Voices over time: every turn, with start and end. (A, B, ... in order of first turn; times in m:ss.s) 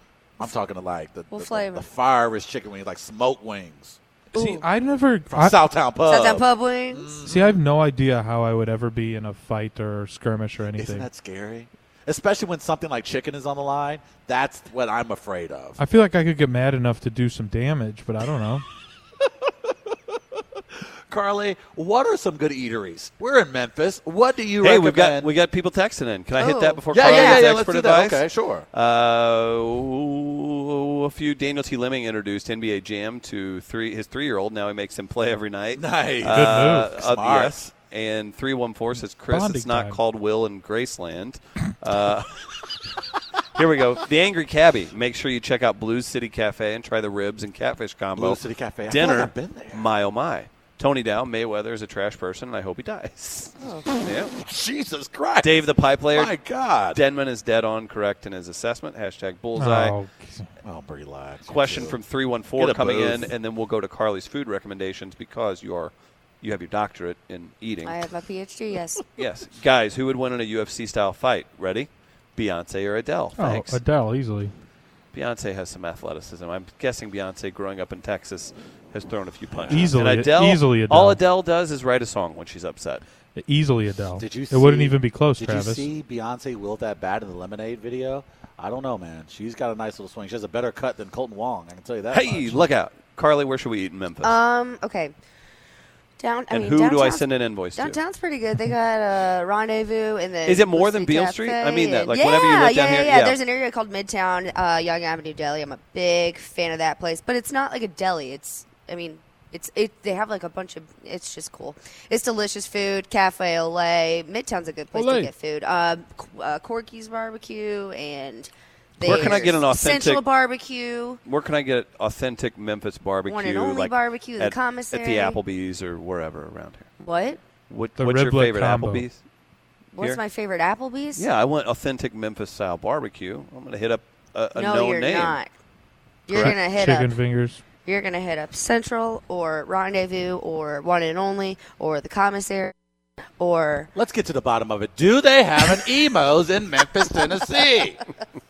0:00.4-0:04.6 A
0:01.3-0:01.8 B
0:04.3-0:05.6 C
0:05.3-0:07.6 A
0:06.0-0:07.2 B
0:07.2-0:11.0 C
0:10.8-0:15.8 A
0:15.8-0:18.6 C
0:19.2-0:20.2 A
0:20.8-0:25.3 A
0:24.6-0:42.4 D
0:26.4-0:27.4 B
0:26.9-0:28.7 A
0:35.7-0:37.6 A
0:36.3-0:36.9 C
0:39.3-0:40.0 C
0:43.5-0:54.3 D
0:48.1-0:49.8 A
0:54.4-0:57.0 A
0:55.4-0:56.3 D
0:56.9-1:00.0 D
0:59.6-1:00.5 C
1:00.6-1:02.0 A
1:01.5-1:08.0 D
1:02.6-1:03.3 A
1:07.8-1:09.0 B
1:09.2-1:13.8 D
1:13.4-1:14.5 C
1:15.1-1:23.0 D
1:19.5-1:20.0 A
1:19.7-1:21.2 C
1:23.4-1:25.9 C
1:24.2-1:32.7 A
1:32.1-1:34.4 D
1:34.2-1:35.1 B
1:36.2-2:01.2 B
1:36.5-1:38.0 D
1:40.4-1:43.4 D
1:54.9-1:55.2 C
1:59.0-2:00.2 D
2:01.2-2:06.9 D
2:03.3-2:05.4 B
2:07.0-2:07.4 B
2:07.7-2:09.2 D
2:08.0-2:09.0 C
2:09.9-2:11.2 B
2:11.2-2:15.4 D
2:14.5-2:15.5 B
2:16.3-2:17.1 B
2:16.3-2:17.6 C
2:17.8-2:22.7 B
2:23.4-2:23.9 B
2:23.9-2:28.0 A